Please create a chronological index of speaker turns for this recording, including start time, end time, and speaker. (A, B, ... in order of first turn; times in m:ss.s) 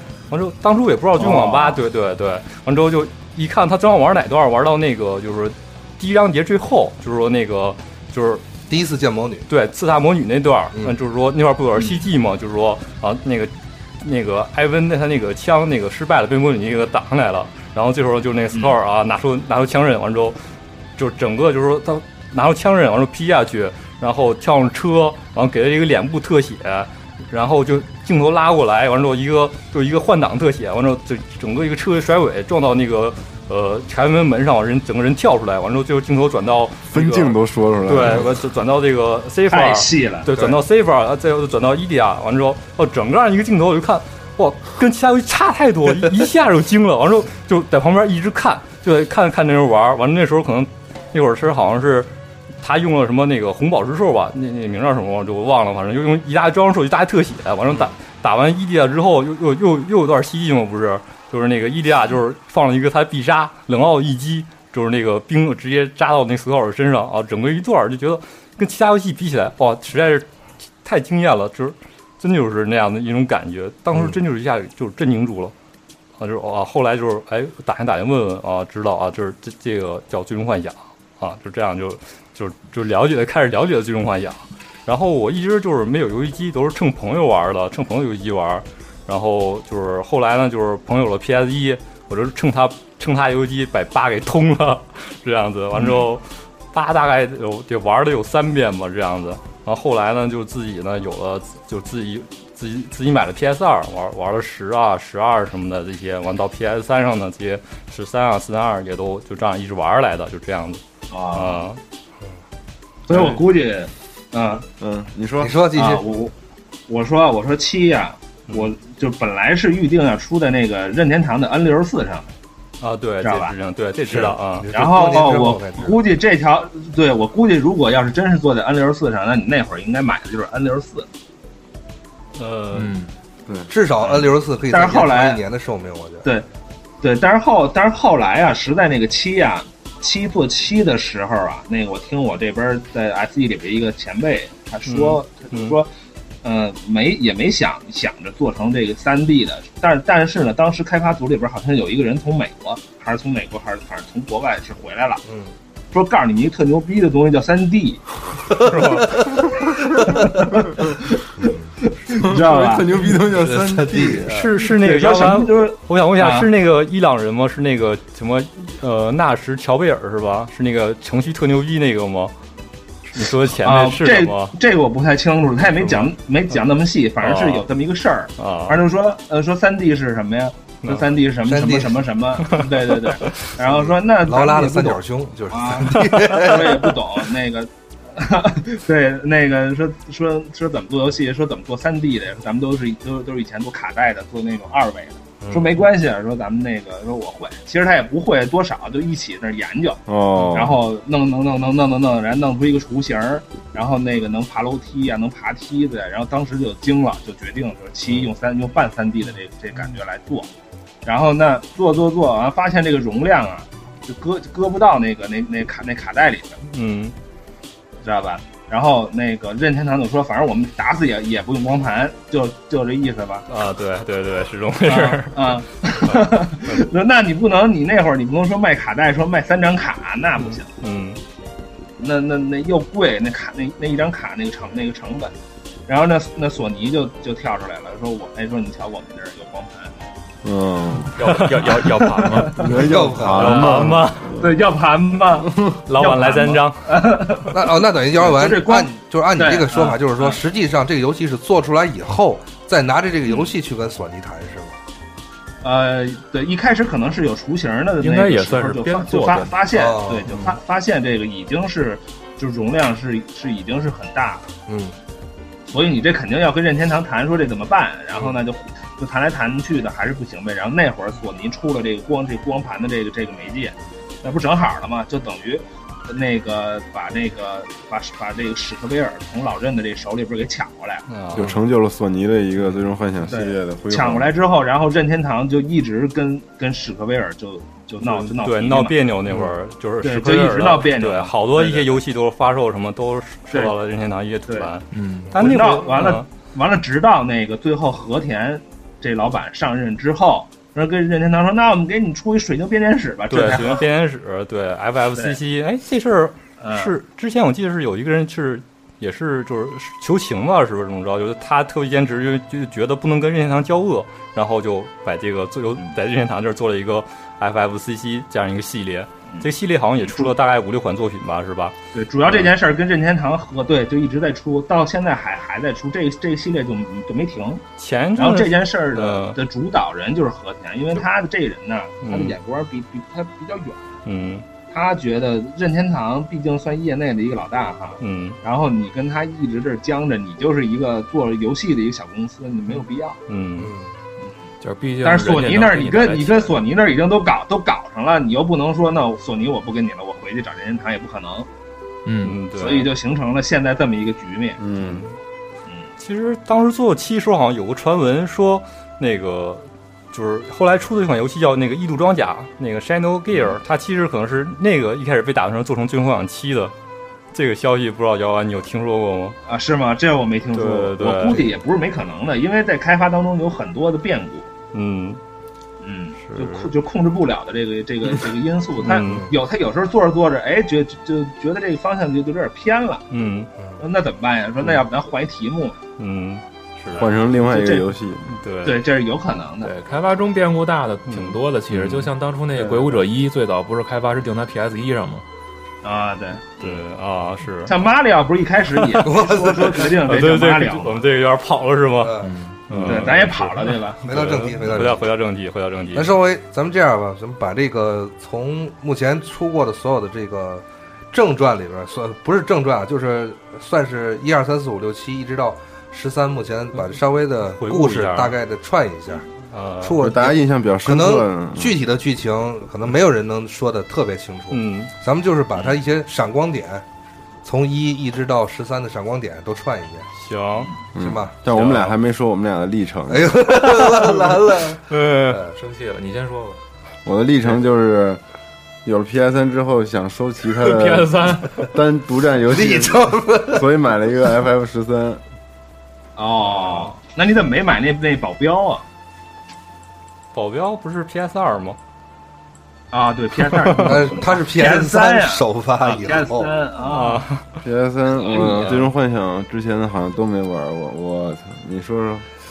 0:00.3-0:08.4 A
0:01.2-0:01.5 B
0:08.7-0:09.5 C
0:09.5-0:20.4 A
0:11.8-0:12.0 B
0:21.0-0:52.1 A
0:36.9-0:38.3 D
0:39.5-0:40.5 B
0:52.6-1:10.3 A
1:10.8-1:15.5 A
1:16.2-1:50.8 A
1:51.1-1:51.6 B
1:51.3-1:51.8 A
1:53.1-1:54.6 B
1:54.8-1:55.6 D
1:55.4-1:56.0 C
1:55.7-1:56.3 B
1:56.9-2:02.3 B
2:02.8-2:04.7 A
2:03.2-2:03.5 B
2:04.1-2:06.0 C
2:04.7-2:11.1 B
2:12.4-2:12.9 A
2:12.7-2:13.1 E
2:13.7-2:16.3 C
2:14.0-2:15.4 B
2:17.0-2:25.9 B
2:24.9-2:25.8 A
2:26.4-2:35.2 B
2:35.2-2:35.5 C
2:35.9-2:38.0 B
2:38.5-2:39.1 C
2:38.6-2:39.2 A
2:40.0-2:43.1 B
2:42.1-2:44.3 D
2:43.3-2:44.3 C
2:44.3-2:52.3 A
2:44.4-2:46.5 B
2:53.1-2:54.5 A
2:53.6-3:30.5 B
2:55.8-2:56.1 A
2:57.2-2:57.6 A
2:58.4-2:58.8 A
3:00.8-3:01.1 A
3:01.4-3:02.0 C
3:02.5-3:03.3 A
3:03.6-3:07.0 C
3:06.0-3:06.3 A
3:15.4-3:15.9 C
3:20.1-3:20.8 D
3:31.0-3:36.6 B
3:36.6-3:37.1 A
3:38.0-3:43.5 B
3:43.5-3:46.9 A
3:44.9-3:50.7 B
3:50.4-3:51.2 A
3:52.0-3:55.3 B
3:55.9-4:00.0 B
4:00.4-4:01.1 D
4:01.2-4:02.7 E
4:01.2-4:02.5 A
4:02.2-4:02.8 B
4:02.5-4:04.5 D
4:02.8-4:03.7 C
4:03.3-4:04.3 A
4:04.4-4:07.6 B
4:05.5-4:05.8 D
4:05.9-4:06.8 A
4:07.5-4:14.8 C
4:08.1-4:10.4 B
4:15.6-4:24.5 B
4:18.0-4:19.6 E
4:19.7-4:20.6 C
4:24.7-4:24.9 C
4:25.7-4:41.0 B
4:41.1-4:41.6 A
4:41.3-4:44.4 D
4:43.2-4:49.0 B
4:48.0-4:56.2 A
4:50.0-4:52.0 B
4:54.9-4:55.3 E
4:55.4-5:03.9 B
5:03.3-5:22.5 A
5:06.6-5:06.9 B
5:20.0-5:20.3 B
5:21.9-5:27.6 B
5:27.8-5:29.4 A
5:28.2-5:33.9 B
5:32.0-5:32.4 A
5:34.0-5:34.4 A
5:34.7-5:43.2 B
5:38.0-5:38.4 A
5:43.3-5:43.7 A
5:43.6-5:43.9 C
5:44.6-5:46.6 E
5:45.0-5:51.5 B
5:52.0-5:52.4 E
5:52.2-5:52.9 A
5:52.6-5:54.6 B
5:54.6-5:55.1 D
5:54.8-5:55.2 A
5:56.0-6:06.7 A
6:07.3-6:09.4 A
6:09.4-6:14.5 B
6:10.5-6:11.5 A
6:14.7-6:15.2 A
6:15.8-6:23.1 B
6:16.2-6:16.7 A
6:18.8-6:19.3 A
6:19.0-6:19.3 C
6:23.1-6:23.5 A
6:23.8-6:25.8 B
6:26.0-6:27.1 A
6:27.0-6:28.2 D
6:27.0-6:27.9 B
6:28.2-6:28.8 A
6:28.6-6:29.7 B
6:29.6-6:35.2 E
6:31.1-6:32.1 A
6:32.6-6:33.0 B
6:35.8-6:36.8 B
6:36.6-6:37.7 A
6:37.7-6:41.1 B
6:39.0-6:40.0 C
6:40.1-6:46.2 A
6:42.0-6:42.3 C
6:42.2-6:42.7 E
6:42.8-6:44.0 B
6:44.0-6:45.1 C
6:45.9-7:06.8 C
6:57.5-6:58.4 A
6:59.5-7:00.0 A
7:00.0-7:01.8 D
7:04.5-7:04.9 A
7:07.4-7:10.1 C
7:10.2-7:10.7 A
7:10.9-7:13.4 D
7:11.0-7:11.3 C
7:11.5-7:11.9 A
7:13.1-7:15.5 C
7:13.8-7:14.1 A
7:14.9-7:15.4 A
7:15.5-7:16.6 E
7:17.0-7:18.2 D
7:18.8-7:25.2 D
7:20.6-7:21.7 E
7:22.5-7:23.6 C
7:26.2-7:28.8 B
7:26.5-7:26.9 A
7:30.3-7:31.8 A
7:32.9-7:37.2 B
7:33.5-7:34.0 A
7:33.8-7:36.5 C
7:36.8-7:37.6 A
7:37.6-7:42.2 D
7:38.2-7:38.9 B